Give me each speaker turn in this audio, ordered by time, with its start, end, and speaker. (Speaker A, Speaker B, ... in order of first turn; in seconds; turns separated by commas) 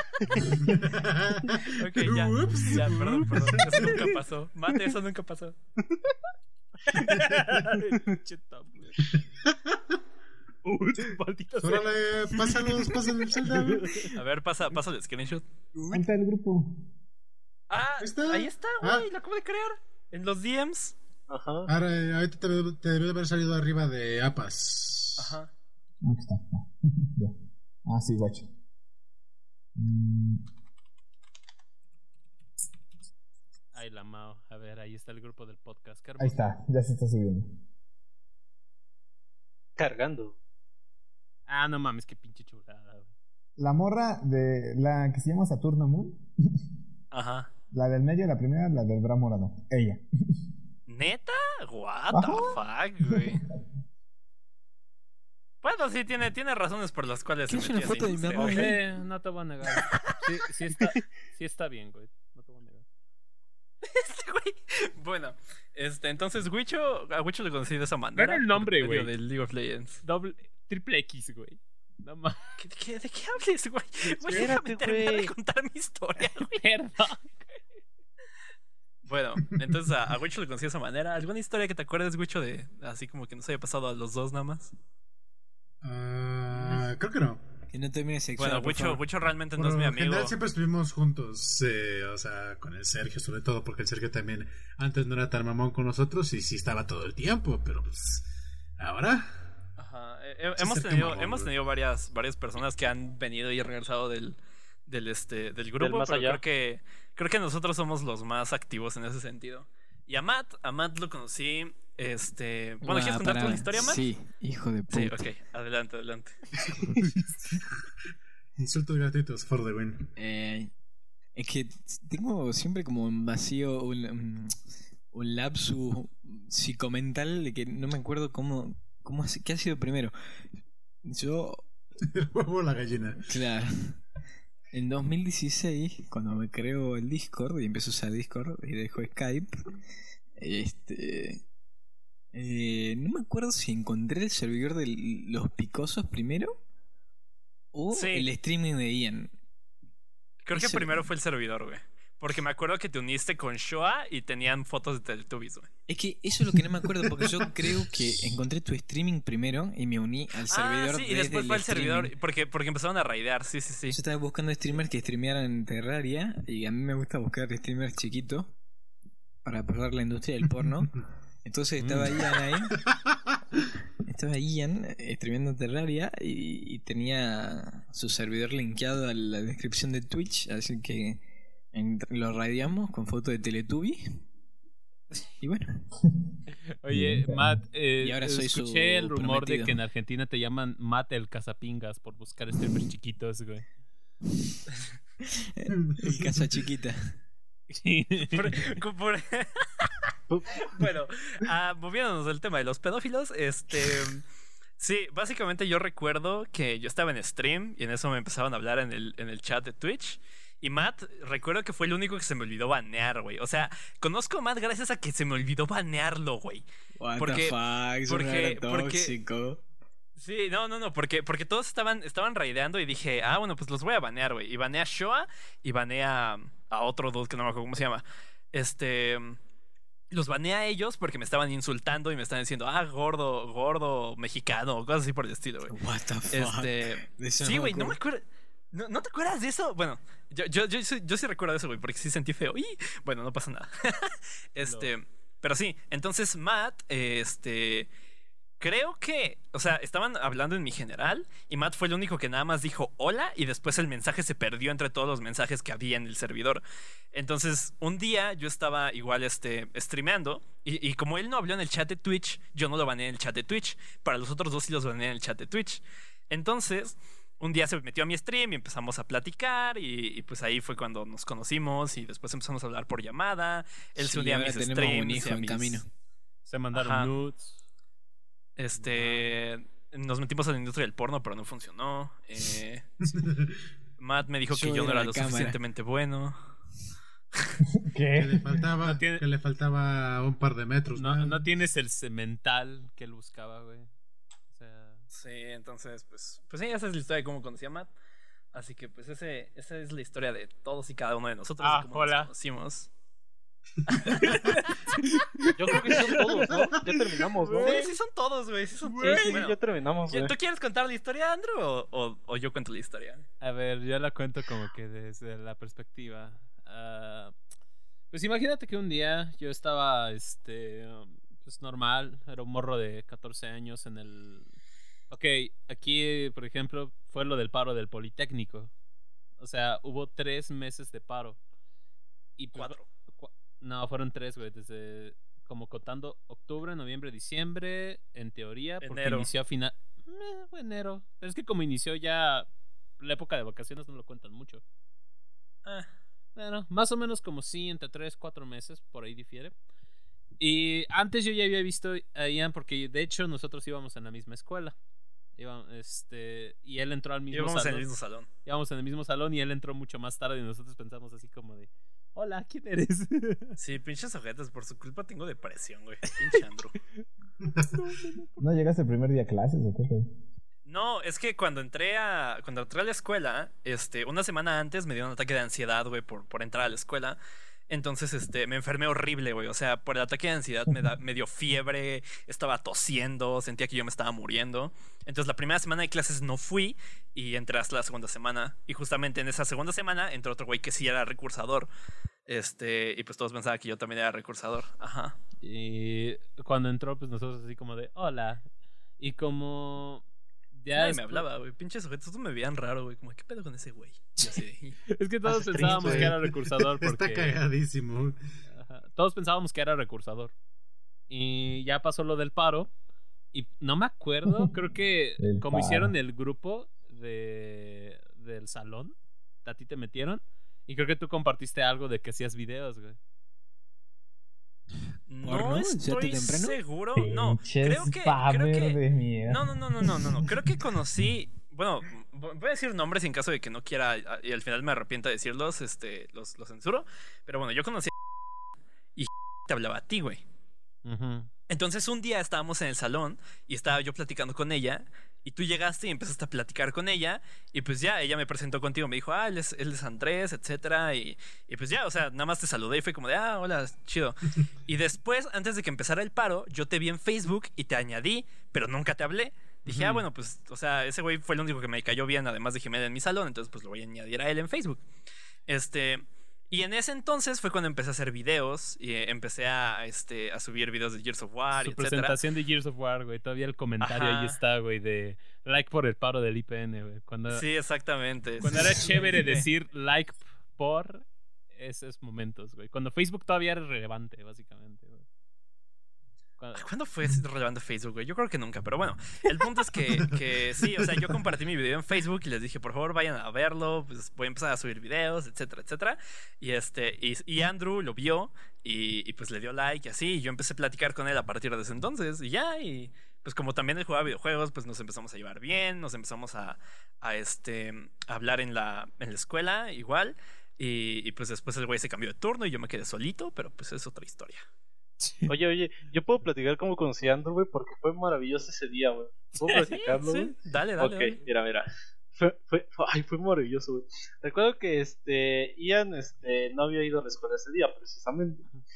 Speaker A: 0.4-4.0, Speaker B: 1.6-5.5, Speaker C: 6.9-9.0, Speaker A: 9.5-9.8, Speaker C: 10.6-11.9, Speaker A: 11.6-14.0, Speaker C: 13.5-14.1, Speaker B: 14.1-15.4, Speaker D: 15.9-16.8, Speaker B: 17.7-20.9, Speaker A: 18.0-19.1, Speaker E: 21.3-21.7, Speaker A: 21.7-25.3, Speaker B: 25.2-25.5, Speaker D: 26.0-27.3, Speaker D: 27.9-28.5, Speaker D: 29.8-30.4, Speaker C: 33.7-36.6, Speaker D: 36.2-37.5, Speaker E: 39.8-40.4, Speaker C: 41.5-43.1, Speaker D: 43.6-46.3, Speaker B: 47.1-47.5, Speaker D: 47.7-50.0, Speaker B: 50.9-53.4, Speaker D: 52.1-53.2, Speaker B: 55.6-58.7, Speaker F: 57.5-58.8, Speaker C: 58.4-62.8, Speaker B: 63.8-70.0, Speaker C: 68.2-69.1, Speaker C: 70.0-72.5, Speaker B: 72.6-76.6, Speaker E: 74.2-75.3, Speaker C: 74.3-74.6, Speaker C: 76.5-77.6, Speaker B: 79.0-84.7, Speaker A: 85.8-87.4, Speaker F: 87.7-89.0, Speaker B: 88.4-90.3, Speaker A: 89.6-98.2, Speaker A: 98.8-99.3, Speaker B: 99.8-114.0, Speaker A: 100.6-101.5, Speaker E: 105.8-106.4, Speaker F: 112.8-115.2, Speaker B: 114.9-116.4, Speaker A: 116.6-117.6, Speaker A: 118.6-120.1, Speaker F: 120.2-120.7, Speaker F: 121.3-124.5, Speaker F: 125.1-130.1, Speaker F: 131.0-131.7, Speaker A: 132.0-133.2, Speaker F: 133.3-134.0, Speaker F: 134.7-139.8, Speaker F: 140.4-141.4, Speaker F: 142.3-146.6, Speaker F: 147.7-149.3, Speaker B: 147.9-148.3, Speaker B: 150.4-155.7, Speaker F: 150.5-151.1, Speaker F: 155.9-162.1, Speaker B: 160.5-164.0, Speaker F: 163.9-168.5, Speaker F: 169.4-172.7, Speaker C: 171.8-172.1, Speaker F: 174.1-184.2, Speaker F: 185.4-185.9, Speaker C: 186.8-193.6, Speaker D: 186.9-187.6, Speaker F: 188.0-189.8, Speaker F: 195.6-197.2, Speaker A: 195.7-196.6, Speaker C: 197.7-198.5, Speaker B: 198.2-199.9, Speaker E: 200.3-200.7, Speaker B: 200.5-204.2, Speaker B: 204.8-216.7, Speaker F: 217.0-219.6, Speaker B: 217.2-219.1, Speaker B: 220.2-229.4, Speaker B: 230.1-235.8, Speaker F: 235.7-238.0, Speaker B: 236.3-247.9, Speaker C: 244.6-244.9, Speaker B: 248.6-275.8, Speaker F: 273.9-275.9, Speaker C: 276.4-277.6, Speaker B: 276.7-277.1, Speaker B: 278.6-283.2, Speaker C: 278.8-279.3, Speaker A: 283.1-283.6, Speaker B: 284.0-286.5, Speaker F: 284.5-285.6, Speaker D: 287.8-288.6, Speaker A: 288.1-291.4, Speaker C: 288.8-289.2, Speaker C: 290.9-293.9, Speaker C: 294.5-295.0, Speaker B: 295.1-297.9, Speaker B: 298.5-302.9, Speaker C: 301.6-302.3, Speaker B: 303.9-304.6, Speaker C: 304.2-307.9, Speaker E: 305.5-307.7, Speaker B: 307.6-309.6, Speaker C: 308.9-309.4, Speaker E: 309.0-310.3, Speaker B: 310.1-313.2, Speaker C: 313.4-317.3, Speaker C: 318.1-324.5, Speaker C: 325.1-328.7, Speaker C: 329.4-331.4, Speaker C: 332.4-342.5, Speaker B: 332.5-332.8, Speaker B: 338.8-339.3, Speaker C: 343.0-344.6, Speaker C: 346.4-349.5, Speaker C: 350.4-354.7, Speaker C: 355.4-357.9, Speaker B: 357.3-358.3, Speaker C: 358.4-363.6, Speaker B: 363.6-366.8, Speaker A: 367.4-367.9, Speaker C: 367.7-368.4, Speaker D: 368.4-370.1, Speaker B: 370.6-391.7, Speaker B: 392.3-395.2, Speaker C: 395.4-398.4, Speaker C: 399.0-401.2, Speaker B: 400.7-404.8, Speaker C: 404.9-407.4, Speaker E: 405.2-406.1, Speaker B: 405.6-406.0, Speaker A: 405.6-408.2, Speaker C: 408.5-410.3, Speaker C: 411.1-412.7, Speaker C: 413.3-423.0, Speaker D: 415.2-415.9, Speaker B: 425.1-437.9, Speaker F: 425.2-426.6, Speaker D: 426.9-430.2, Speaker B: 438.9-440.2, Speaker C: 440.8-441.3, Speaker B: 441.5-464.8, Speaker C: 459.6-460.0, Speaker B: 465.5-472.2, Speaker C: 471.5-477.4, Speaker B: 473.8-474.4, Speaker B: 477.3-479.4, Speaker C: 478.4-485.0, Speaker C: 486.4-486.7, Speaker B: 486.5-514.4, Speaker F: 515.0-515.3, Speaker E: 515.3-528.4, Speaker C: 519.4-519.9, Speaker B: 519.8-521.2